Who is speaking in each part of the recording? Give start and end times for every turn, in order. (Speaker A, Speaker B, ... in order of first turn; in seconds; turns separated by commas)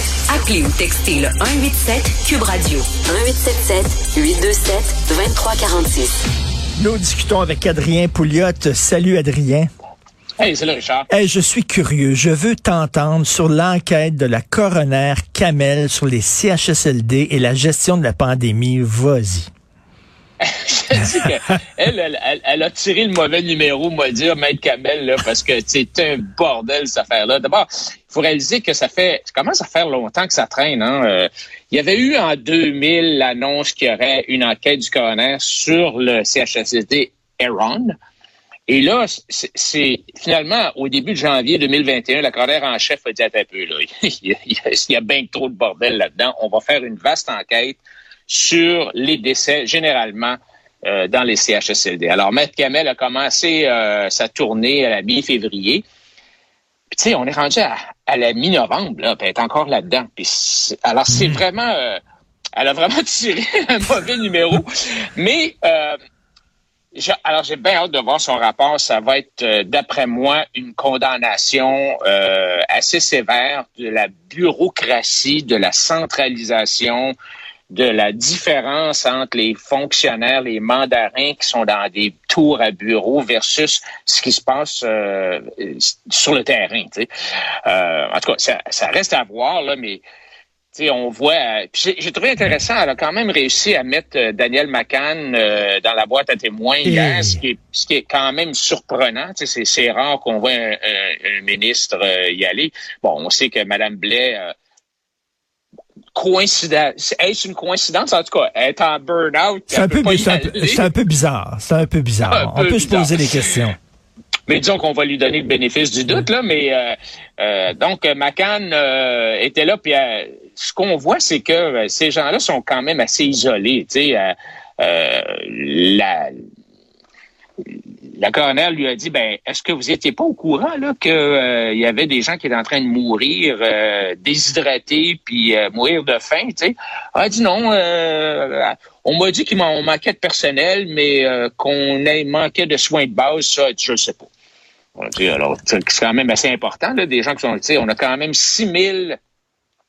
Speaker A: 0.3-6.2, Speaker B: 6.8-9.7, Speaker C: 10.4-11.1, Speaker B: 11.1-19.5, Speaker C: 20.4-38.0, Speaker C: 38.7-55.9, Speaker C: 56.9-62.0, Speaker B: 61.1-61.4, Speaker C: 62.6-66.0, Speaker C: 66.9-77.1, Speaker C: 77.7-87.1, Speaker C: 87.7-90.0, Speaker C: 90.7-104.5, Speaker B: 96.8-97.4, Speaker C: 106.1-110.9, Speaker B: 109.7-113.8, Speaker C: 112.2-113.6, Speaker C: 114.5-126.4, Speaker C: 128.2-144.3, Speaker C: 145.0-149.2